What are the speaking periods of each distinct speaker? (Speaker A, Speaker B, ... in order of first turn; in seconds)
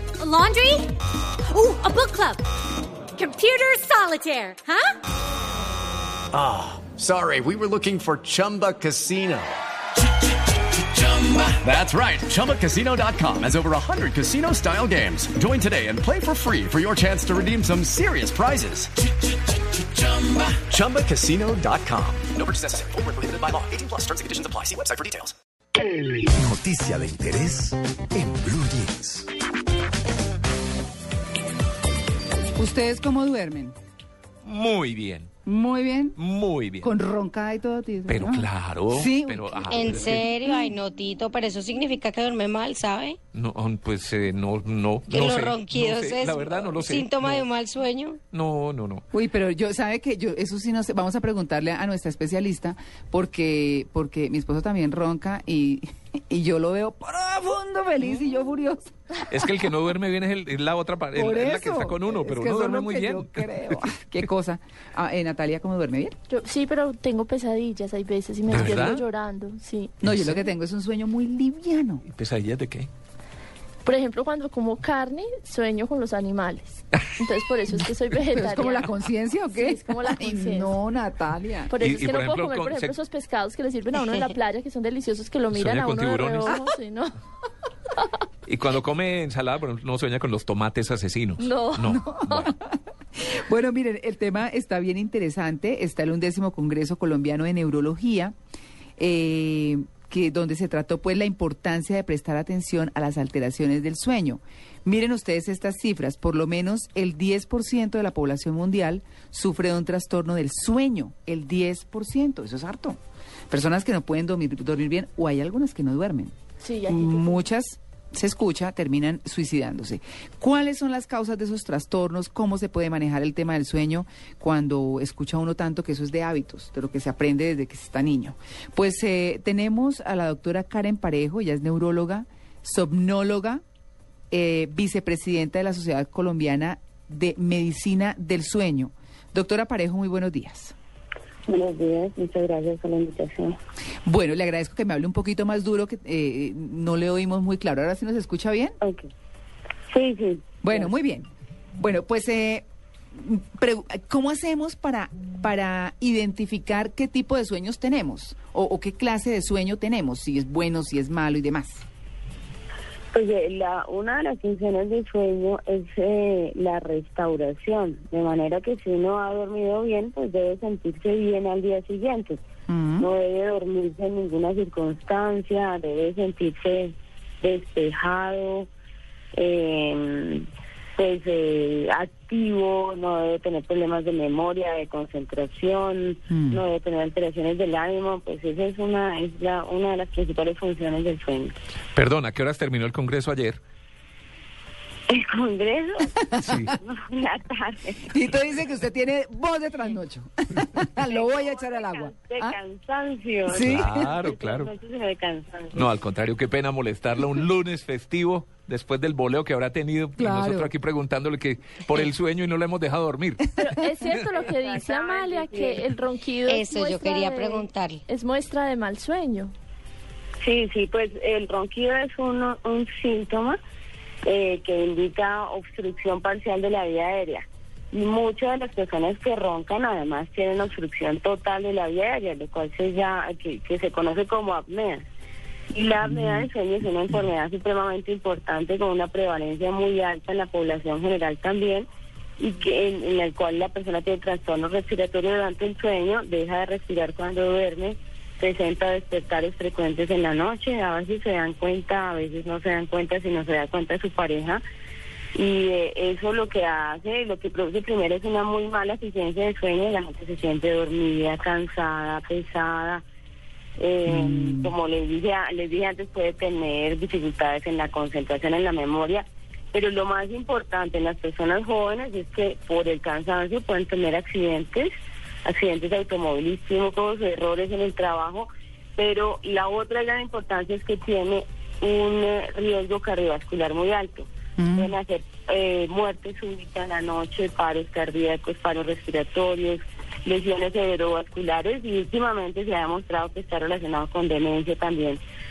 Speaker A: 0.2-0.9, 1.5-2.4, 3.2-5.0
Speaker B: 6.3-9.6, 11.0-18.9, 20.0-25.3
Speaker C: 26.2-29.3
Speaker D: 32.6-33.8, 35.5-36.2, 36.8-40.8, 49.1-59.7, 61.1-66.2, 70.0-72.0, 77.7-81.7, 91.9-98.3, 99.0-113.0, 113.5-116.3, 116.9-133.6, 134.3-140.7, 144.1-148.8, 150.6-161.8, 172.7-173.1, 186.3-186.6, 196.3-196.8, 198.1-202.6, 203.5-204.2, 210.2-210.7, 236.0-236.5, 264.1-264.7, 284.6-284.9
Speaker E: 34.5-35.3, 36.2-36.9, 38.1-40.3, 43.3-47.5, 48.3-49.0, 59.3-64.3, 68.5-69.0, 70.0-70.5, 72.1-72.9, 81.8-83.0, 85.5-86.6, 88.5-92.5, 192.0-193.6, 196.4-196.8, 203.5-204.7, 205.7-213.6
Speaker F: 39.7-43.2, 45.1-48.2, 216.4-218.0
Speaker G: 66.3-70.0, 73.8-80.8, 81.7-87.1, 91.4-92.5, 116.6-117.5, 213.6-219.5
Speaker H: 141.5-143.6, 148.8-149.1, 149.9-150.9, 163.1-172.4, 173.0-178.7, 179.3-191.6, 195.1-196.2, 196.8-198.1, 201.0-205.9, 214.3-215.9, 220.4-223.6, 224.2-235.1, 235.7-241.9, 242.4-254.6, 255.3-263.0, 263.8-274.9, 275.4-295.2